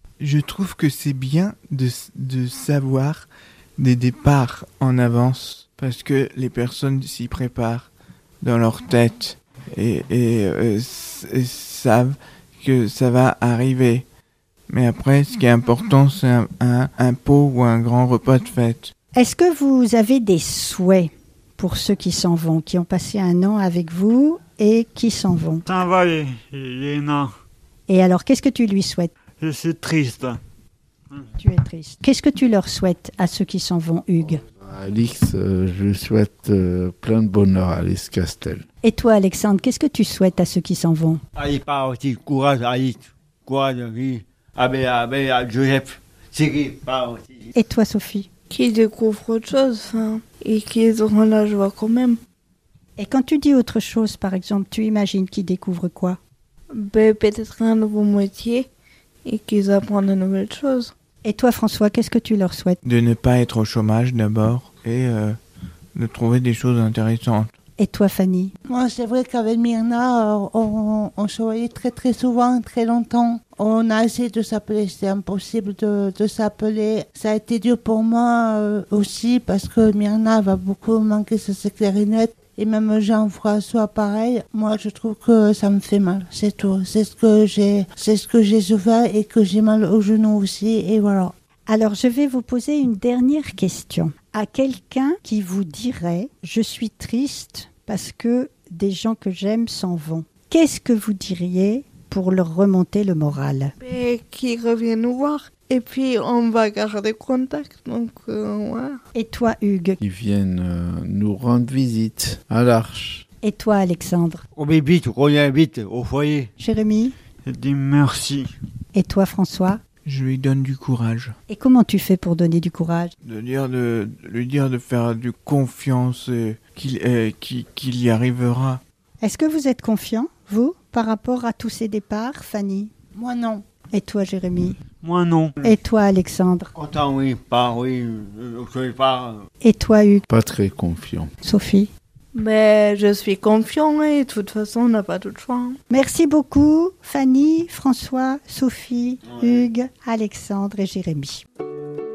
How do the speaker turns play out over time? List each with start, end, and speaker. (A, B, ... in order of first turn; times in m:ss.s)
0:00.2-0:07.9 A
0:08.4-0:14.0 A
0:14.7-0:18.9 A
0:19.1-0:25.6 B
0:25.6-0:27.3 C
0:27.9-0:29.1 B
0:29.4-0:30.4 C
0:31.4-0:34.4 B
0:34.4-0:38.6 D
0:38.8-0:41.2 B
0:41.4-0:47.5 E
0:47.5-0:48.3 B
0:48.5-0:52.2 F
0:53.0-0:56.2 B
0:56.7-0:58.7 F
0:59.2-1:00.9 F
1:01.2-1:02.8 B
1:02.8-1:05.4 A
1:05.9-1:07.5 A
1:07.8-1:08.5 B
1:08.6-1:31.3 G
1:31.7-1:43.7 B
1:43.8-1:49.0 F
1:49.1-1:50.0 B
1:50.0-1:53.2 D
1:53.4-1:54.4 B
1:54.5-1:56.5 E
1:56.6-1:57.1 B
1:57.4-1:58.5 C
1:58.9-1:59.8 B
2:00.0-2:01.3 A
2:01.5-2:03.1 B
2:03.2-2:08.8 A
2:09.2-2:12.9 B
2:13.1-2:13.6 G
2:13.9-2:14.8 B
2:15.0-2:15.7 C
2:15.6-2:16.7 B
2:16.7-2:19.4 E
2:19.6-2:20.2 B
2:20.3-2:21.3 D
2:21.4-2:21.9 B
2:22.3-2:25.8 F
2:25.9-2:31.4 B
2:29.3-2:29.6 E